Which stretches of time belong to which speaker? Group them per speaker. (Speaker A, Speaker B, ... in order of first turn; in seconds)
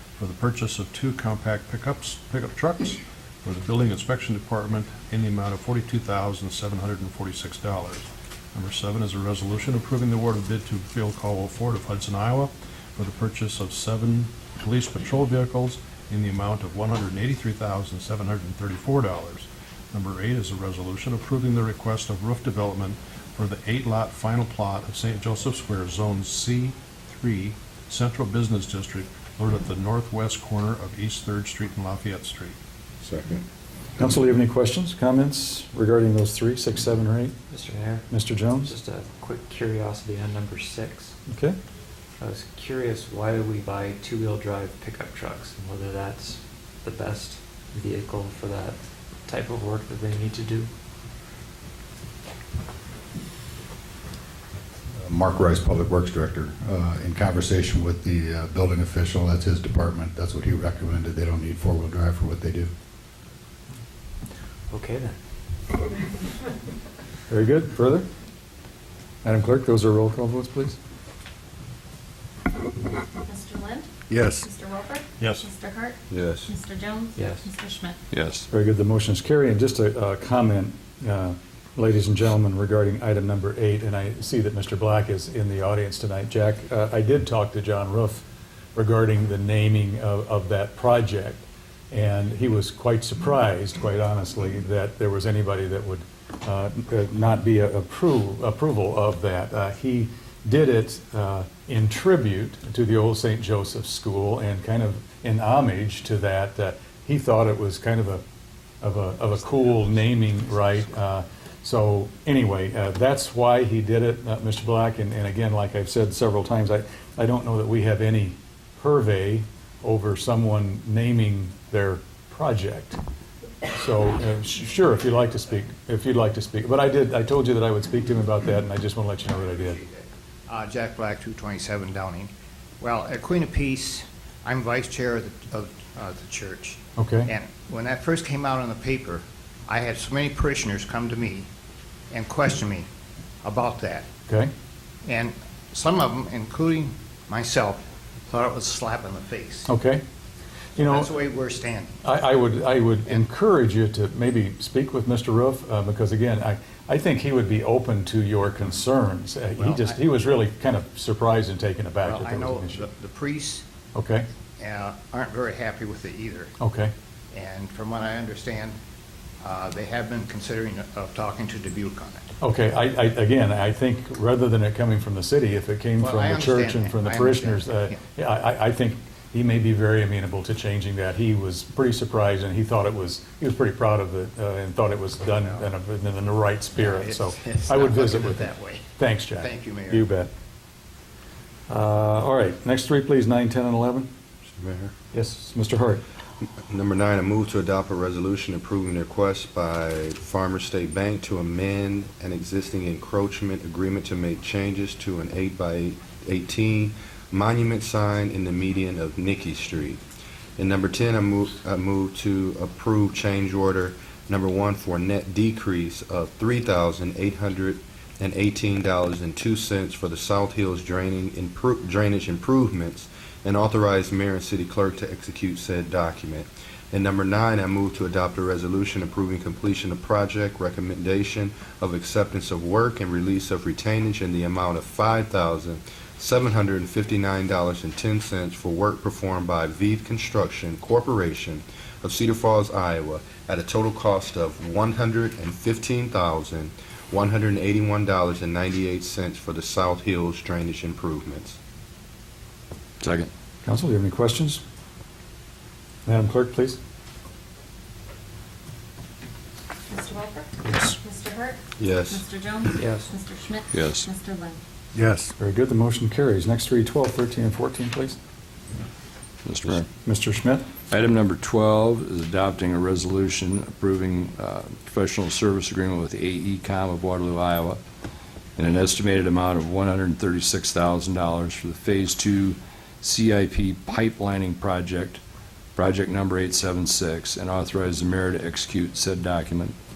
Speaker A: 0.2-32.5, 75.2-75.5
Speaker B: 33.0-33.4, 76.1-76.5, 194.5-194.9, 196.6-210.0, 210.6-251.6, 261.8-262.2
Speaker C: 34.0-37.3, 38.1-38.7, 41.3-41.5, 67.3-68.1, 69.2-70.8, 78.5-108.2, 108.8-123.0, 123.7-129.8, 136.9-137.3, 149.7-150.0, 150.8-151.1, 152.0-162.8, 163.9-164.3, 166.6-166.9, 172.4-190.3, 191.7-194.1, 195.1-196.0, 253.6-254.6, 256.1-256.8, 265.4-268.2, 270.0-270.6
Speaker D: 37.5-41.1, 42.2-50.7, 64.7-65.2, 77.2-77.5, 260.7-260.9, 262.7-263.1
Speaker E: 55.0-62.7, 74.1-74.4, 264.9-265.3
Speaker F: 73.2-78.0, 259.9-264.6
Speaker G: 78.1-78.5, 253.0-253.3, 263.7-264.1, 269.4-269.9, 270.9-277.8, 278.6-285.2, 285.8-289.8
Speaker H: 129.5-141.5, 142.1-142.9, 143.4-144.1, 145.0-149.7, 150.8-152.0, 159.6-160.0, 162.0-163.7, 164.6-166.5, 167.3-168.8, 169.4-172.3, 176.0-178.0, 185.3-185.7, 186.8-190.1